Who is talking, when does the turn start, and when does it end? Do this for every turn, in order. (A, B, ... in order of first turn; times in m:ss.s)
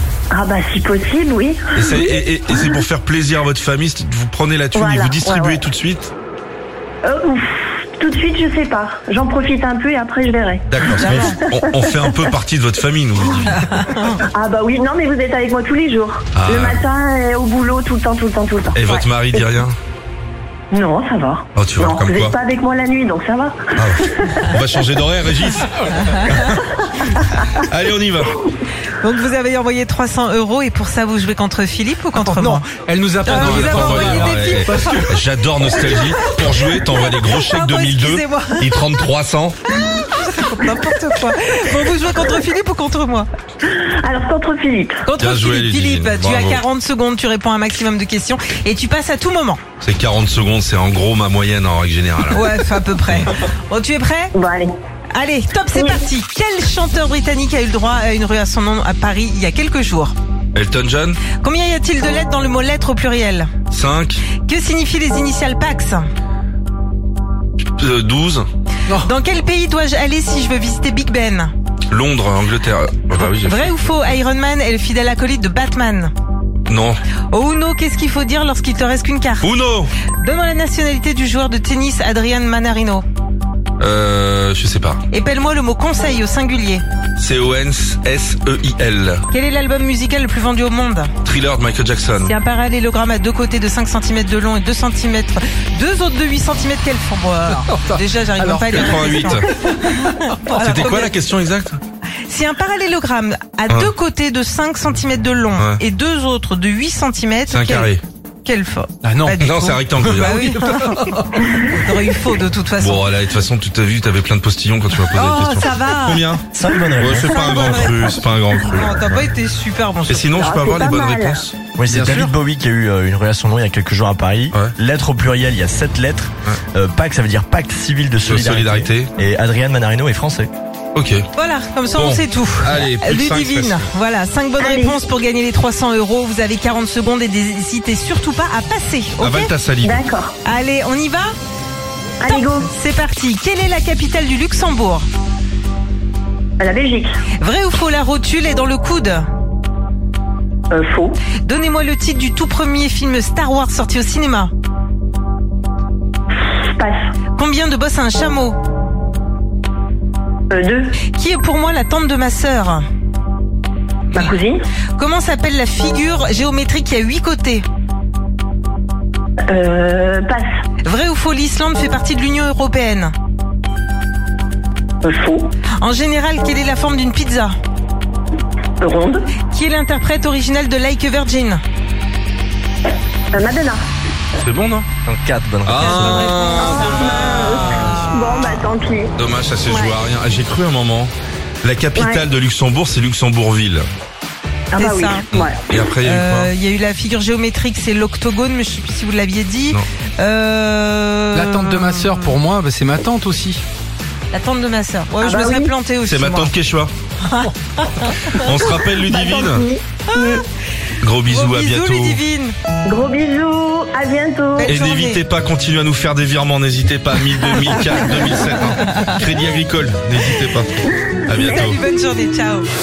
0:00.3-0:02.7 A
0:01.8-0:06.1 B
0:04.8-0:05.6 A
0:07.0-0:12.2 A
0:10.7-0:13.7 B
0:11.0-0:11.4 C
0:13.7-0:14.2 C
0:14.3-0:19.5 A
0:16.4-0:16.8 B
0:18.8-0:19.8 B
0:20.7-0:24.4 A
0:21.6-0:22.4 B
0:23.8-0:26.7 B
0:26.0-0:26.3 C
0:27.5-0:28.4 B
0:29.0-0:32.7 C
0:32.2-0:35.1 D
0:33.2-0:38.7 C
0:33.3-0:39.6 B
0:39.7-0:43.3 C
0:43.7-0:45.0 A
0:45.1-0:49.6 C
0:45.2-0:46.6 B
0:49.8-0:53.3 B
0:52.3-0:54.3 C
0:54.4-0:54.7 A
0:55.1-1:00.2 C
0:55.7-0:56.0 A
1:00.6-1:01.2 B
1:01.3-1:03.5 C
1:03.7-1:04.2 B
1:04.4-1:06.0 C
1:07.8-1:08.4 B
1:08.9-1:11.5 C
1:11.9-1:13.9 B
1:13.2-1:16.1 C
1:16.7-1:17.0 B
1:17.3-1:19.5 C
1:19.4-1:19.9 B
1:20.2-1:23.0 C
1:23.8-1:25.0 B
1:25.1-1:26.8 C
1:27.2-1:29.2 B
1:29.3-1:31.1 C
1:31.2-1:32.3 B
1:32.2-1:41.1 C
1:37.6-1:38.8 D
1:38.7-1:39.5 B
1:39.8-1:40.4 D
1:40.5-1:41.8 B
1:42.3-1:53.1 C
1:47.5-1:48.0 B
1:49.0-1:51.5 D
1:49.4-1:50.6 B
1:52.8-1:56.4 B
1:55.1-1:56.3 C
1:56.5-1:57.6 E
1:57.0-1:59.2 B
1:57.2-2:00.3 C
2:00.1-2:01.6 B
2:00.4-2:01.4 A
2:01.8-2:10.5 E
2:01.9-2:02.3 D
2:08.2-2:09.1 B
2:11.0-2:11.3 B
2:11.3-2:19.5 C
2:12.0-2:13.9 B
2:14.6-2:15.0 A
2:19.2-2:20.0 B
2:19.8-2:20.4 A
2:20.4-2:21.3 C
2:22.2-2:22.7 A
2:22.2-2:25.1 C
2:26.6-2:27.2 A
2:27.4-2:29.2 C
2:30.7-2:31.2 A
2:31.4-2:34.5 C
2:36.6-2:37.1 A
2:37.4-2:38.6 C
2:40.5-2:41.0 A
2:41.1-2:42.8 C
2:44.1-2:44.6 A
2:45.0-2:47.6 C
2:49.5-2:50.5 A
2:50.8-2:53.1 C
2:55.0-2:55.5 A
2:55.8-2:57.5 C
2:58.8-2:59.3 A
2:59.4-3:01.6 C
3:03.3-3:03.8 A
3:04.4-3:04.9 B
3:05.1-3:06.3 E
3:05.6-3:08.0 B
3:05.8-3:08.4 C
3:06.5-3:09.1 A
3:09.2-3:11.1 B
3:09.7-3:10.0 A
3:11.6-3:13.9 B
3:12.0-3:12.3 A
3:14.7-3:15.6 A
3:14.8-3:15.3 C
3:15.3-3:16.5 B
3:16.0-3:22.4 C
3:21.3-3:23.6 D
3:24.3-3:26.5 C
3:25.2-3:25.7 A
3:26.0-3:26.9 B
3:27.2-3:28.5 C
3:28.3-3:29.7 B
3:28.5-3:30.4 A
3:30.1-3:30.4 C
3:31.0-3:32.2 B
3:31.3-3:32.5 C
3:32.9-3:34.8 A
3:34.6-3:35.2 C
3:34.7-3:41.8 B
3:38.7-3:39.1 C
3:41.4-3:42.7 C